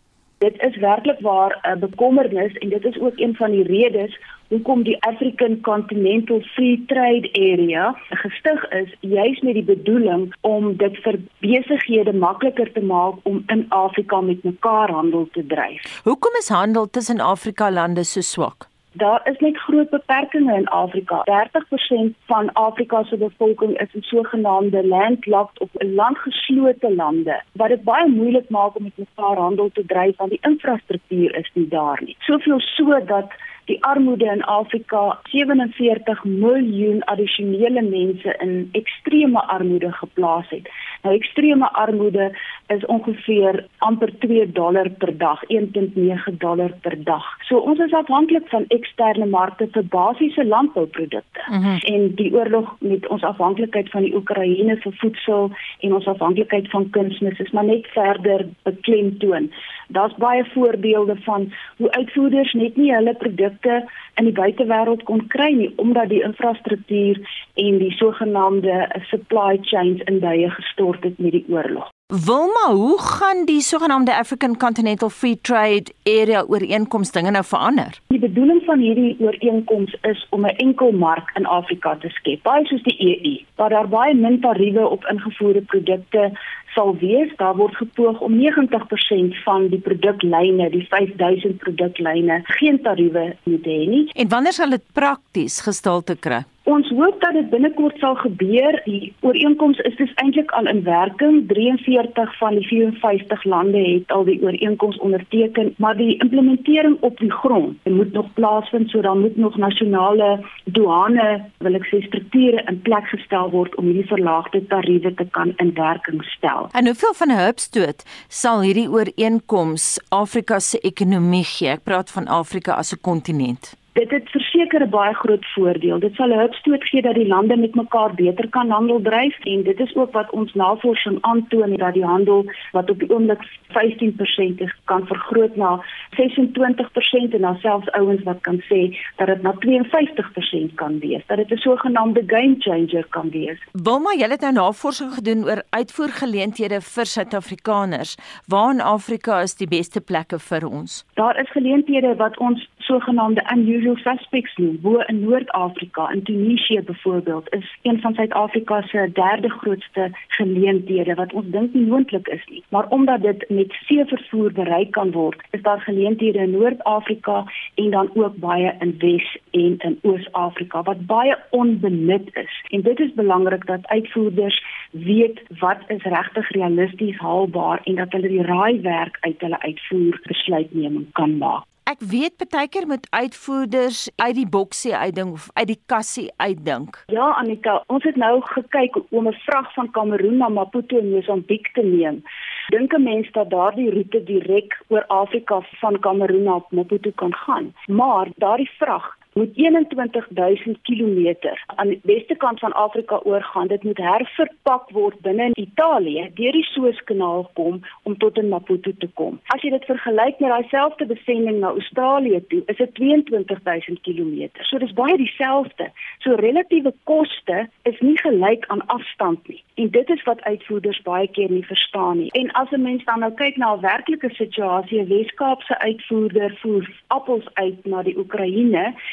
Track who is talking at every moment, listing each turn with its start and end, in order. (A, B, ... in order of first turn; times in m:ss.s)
0:00.4-0:15.8 A
0:16.0-0:18.6 B
0:19.0-1:11.9 A
0:51.5-0:51.8 B
1:12.1-1:18.0 B
1:18.1-1:34.1 A
1:34.2-1:36.4 B
1:36.6-1:56.7 A
1:56.7-2:03.7 B
2:03.9-2:23.6 A
2:23.7-2:31.0 B
2:31.2-3:01.6 A
3:01.8-3:07.0 B
3:07.1-3:48.9 A